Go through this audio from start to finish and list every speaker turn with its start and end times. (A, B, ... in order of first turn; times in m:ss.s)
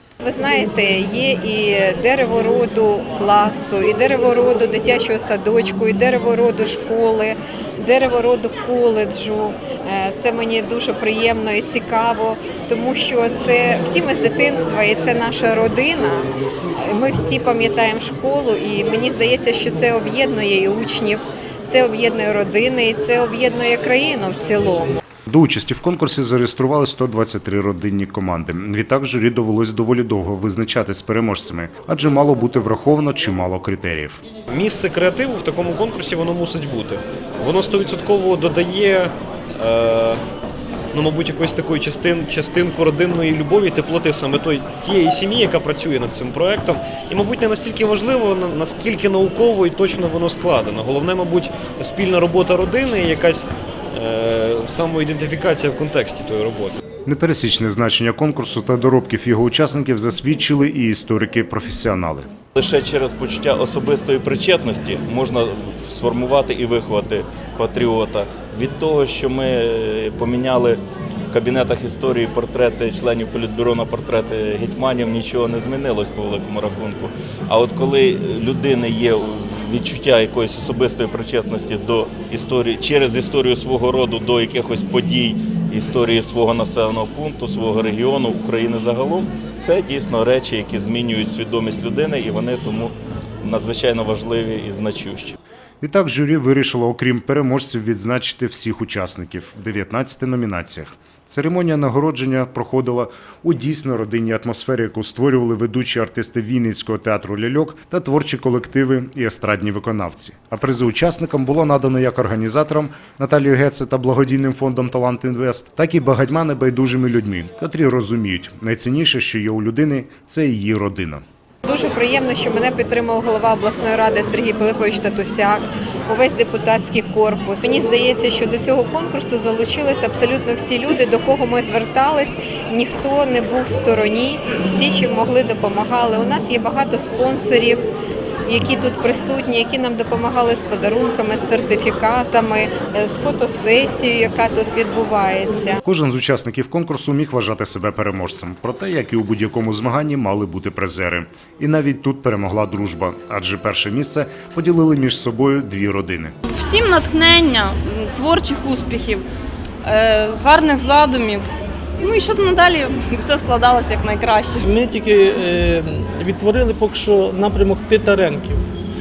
0:00.2-0:25.0 A
0:25.3-0:34.2 B
0:34.5-0:40.2 C
0:40.9-0:56.8 C
0:57.1-1:02.3 B
1:02.6-1:35.4 D
1:35.8-2:01.2 B
2:01.6-2:17.9 A
2:18.5-2:25.8 A
2:25.8-2:36.3 B
2:36.5-2:39.2 E
2:39.9-2:41.5 E
2:42.0-2:44.6 E
2:44.6-2:48.7 F